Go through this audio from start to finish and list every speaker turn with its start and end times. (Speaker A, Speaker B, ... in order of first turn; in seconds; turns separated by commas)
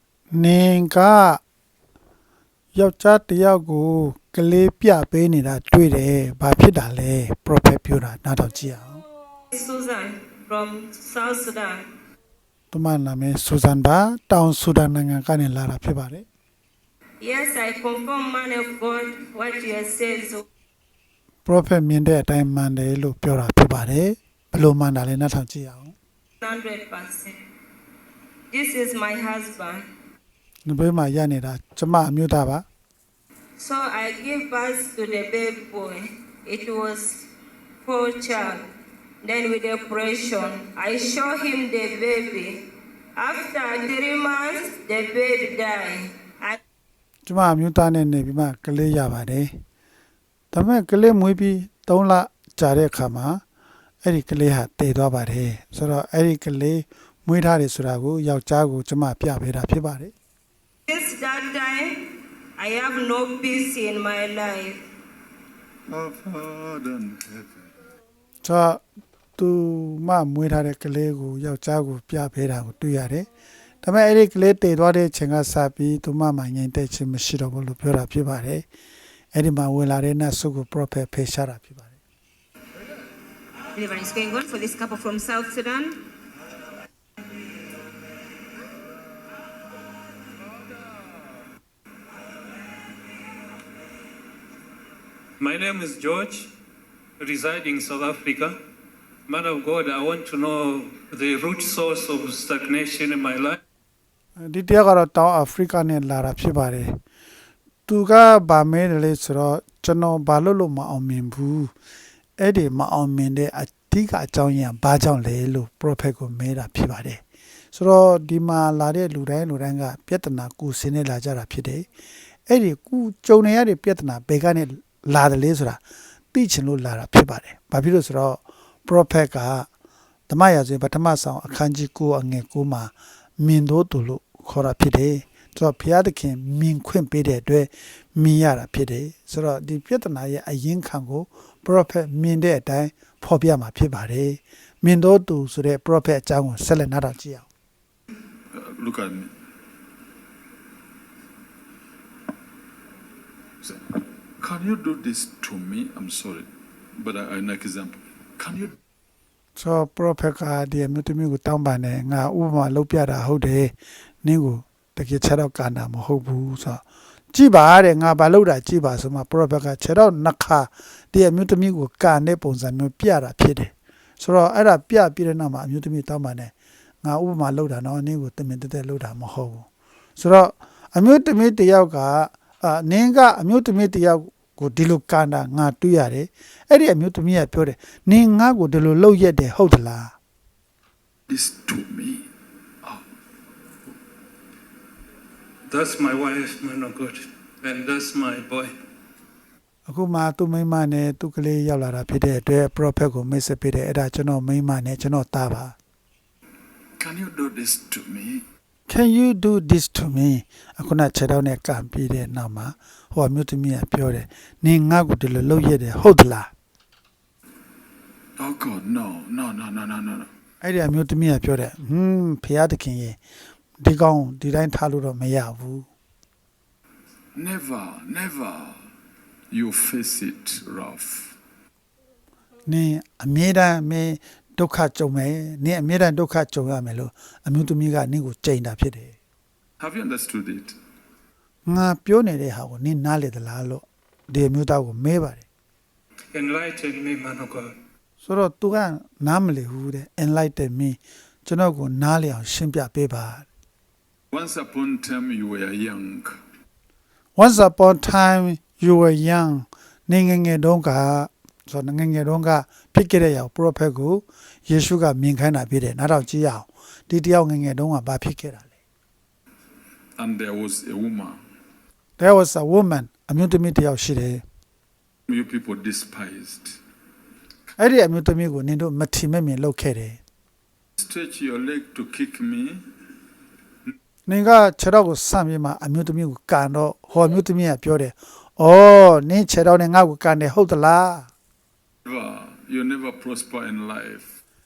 Speaker A: 0.3-1.4, Speaker A: 2.7-9.0, Speaker B: 9.5-11.8, Speaker A: 12.7-16.2, Speaker B: 17.2-20.4, Speaker A: 21.4-25.9, Speaker B: 26.4-27.4, Speaker B: 28.5-29.8, Speaker A: 30.6-32.6, Speaker B: 33.6-37.2, Speaker B: 37.8-38.6, Speaker B: 39.2-42.6, Speaker B: 43.2-46.6, Speaker A: 47.2-49.5, Speaker A: 50.5-53.4, Speaker A: 54.0-60.1, Speaker B: 60.9-62.0, Speaker B: 62.6-64.8, Speaker C: 65.9-67.6, Speaker A: 68.4-68.8, Speaker A: 69.4-73.3, Speaker A: 73.8-78.7, Speaker A: 79.3-81.9, Speaker D: 83.7-86.0, Speaker E: 95.4-96.5, Speaker E: 97.2-98.5, Speaker E: 99.3-103.6, Speaker A: 104.4-107.0, Speaker A: 107.9-111.7, Speaker A: 112.4-117.2, Speaker A: 117.7-121.8, Speaker A: 122.5-125.8, Speaker A: 126.3-129.7, Speaker A: 130.3-147.4, Speaker C: 148.5-149.3, Speaker C: 154.4-158.7, Speaker A: 159.6-176.5, Speaker A: 177.0-190.1, Speaker C: 191.3-192.2, Speaker E: 195.7-198.7, Speaker A: 199.8-205.7, Speaker C: 207.0-208.4, Speaker A: 208.9-216.5, Speaker C: 218.4-220.3, Speaker A: 220.6-223.2, Speaker A: 223.8-225.9, Speaker C: 227.3-228.8, Speaker C: 229.5-231.3, Speaker A: 232.7-239.1, Speaker C: 239.8-240.8, Speaker A: 241.7-245.4, Speaker E: 246.3-247.7, Speaker A: 248.2-253.5, Speaker C: 254.3-256.4, Speaker A: 257.4-268.7, Speaker C: 270.2-271.4, Speaker A: 272.2-274.4, Speaker C: 275.3-276.8, Speaker A: 277.8-280.2, Speaker C: 281.0-282.8, Speaker A: 284.2-291.3, Speaker C: 292.0-294.3